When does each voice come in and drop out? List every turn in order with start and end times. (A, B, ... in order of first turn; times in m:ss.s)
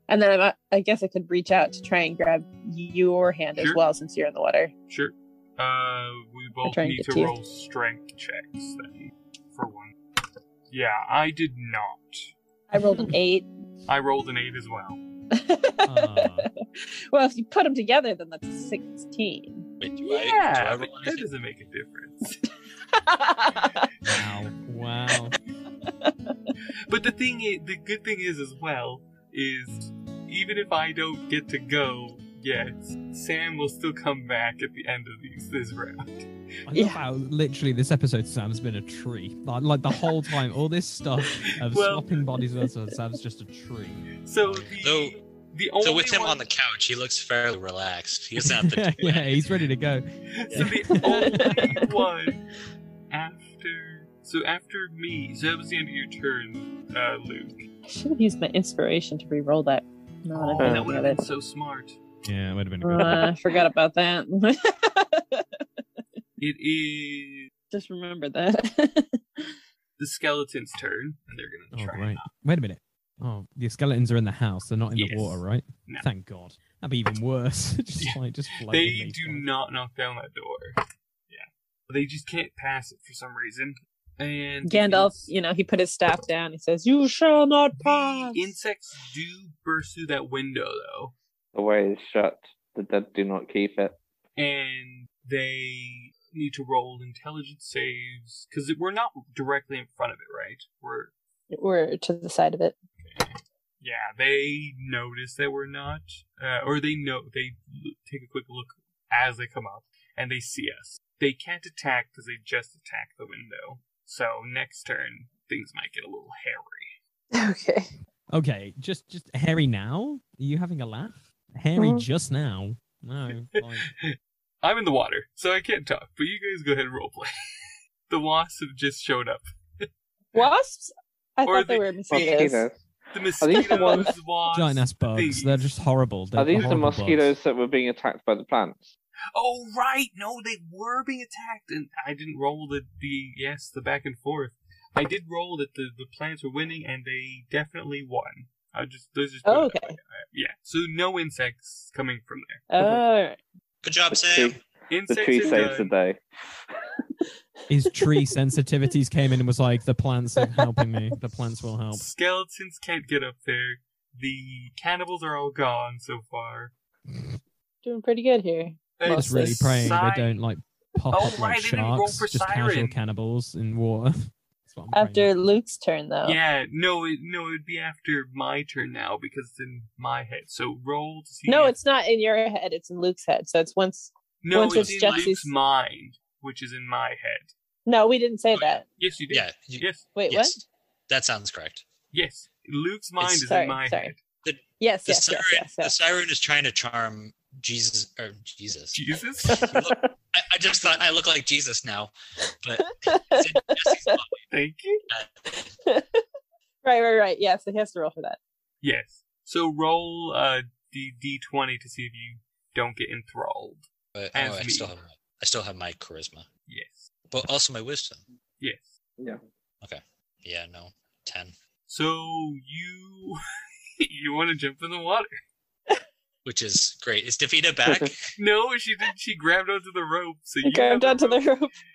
0:00.1-0:04.7 A
0:04.9-0:09.9 B
0:06.6-0:07.3 A
0:10.7-0:12.3 B
0:12.7-0:13.5 A
0:13.9-0:15.0 B
0:15.3-0:19.7 A
0:15.8-0:16.5 C
0:19.8-0:21.3 D
0:20.0-0:22.4 B
0:22.9-0:23.9 A
0:24.0-0:25.4 C
0:25.8-0:26.5 A
0:26.9-0:36.3 B
0:36.7-0:44.7 C
0:36.7-0:37.0 A
0:41.6-0:42.3 B
0:44.2-0:46.5 B
0:44.8-0:45.2 D
0:45.8-0:49.5 D
0:48.4-0:51.8 C
0:50.3-0:52.4 B
0:50.9-0:52.0 A
0:53.1-0:57.6 B
0:57.9-1:01.2 A
1:00.3-1:02.0 B
1:00.6-1:00.9 E
1:02.2-1:03.4 C
1:02.8-1:05.4 A
1:06.4-1:07.5 B
1:07.7-1:09.5 A
1:10.0-1:12.3 B
1:11.7-1:19.4 C
1:15.0-1:16.1 B
1:18.0-1:20.8 B
1:21.3-1:25.3 B
1:24.6-1:28.5 A
1:27.8-1:31.1 B
1:31.5-1:34.0 E
1:34.4-1:41.1 B
1:41.5-1:42.7 A
1:43.0-1:57.0 B
1:57.3-1:57.9 A
1:58.3-2:03.9 C
2:01.8-2:02.0 E
2:03.3-2:07.3 B
2:08.1-2:10.4 B
2:10.3-2:12.6 A
2:11.5-2:12.4 B
2:12.1-2:12.8 E
2:13.1-2:15.7 B
2:13.4-2:14.1 E
2:13.7-2:14.0 A
2:14.5-2:17.3 C
2:16.4-2:18.9 E
2:19.3-2:32.7 B
2:29.4-2:30.0 A
2:32.7-2:33.4 A
2:33.8-2:34.6 D
2:34.2-2:36.2 E
2:34.9-2:35.9 B
2:37.7-2:42.1 C
2:40.4-2:40.8 A
2:41.9-2:46.7 B
2:47.8-2:50.0 A
2:49.0-2:50.4 B
2:49.0-2:55.4 C
2:51.1-2:53.0 B
2:54.9-2:56.4 A
2:56.2-3:01.8 B
3:01.5-3:05.5 A
3:04.4-3:07.5 B
3:04.6-3:05.3 D
3:07.8-3:08.8 A
3:09.0-3:10.1 B
3:09.3-3:11.8 D
3:10.1-3:10.6 A
3:12.1-3:14.2 B
3:13.4-3:14.1 A
3:14.4-3:24.4 D
3:14.8-3:15.9 A
3:18.9-3:19.7 B
3:19.6-3:20.0 E
3:22.8-3:24.2 A
3:24.5-3:25.0 B
3:25.1-3:25.4 D
3:25.5-3:26.2 A
3:26.8-3:28.4 A
3:28.8-3:34.9 B
3:34.1-3:36.5 D
3:36.7-3:37.1 B
3:37.3-3:38.2 D
3:38.6-3:38.9 B
3:39.8-3:41.5 D
3:41.9-3:43.4 B
3:44.0-3:45.4 B
3:46.4-3:48.3 D
3:47.8-3:48.1 E
3:48.4-3:51.5 B
3:50.6-3:51.7 A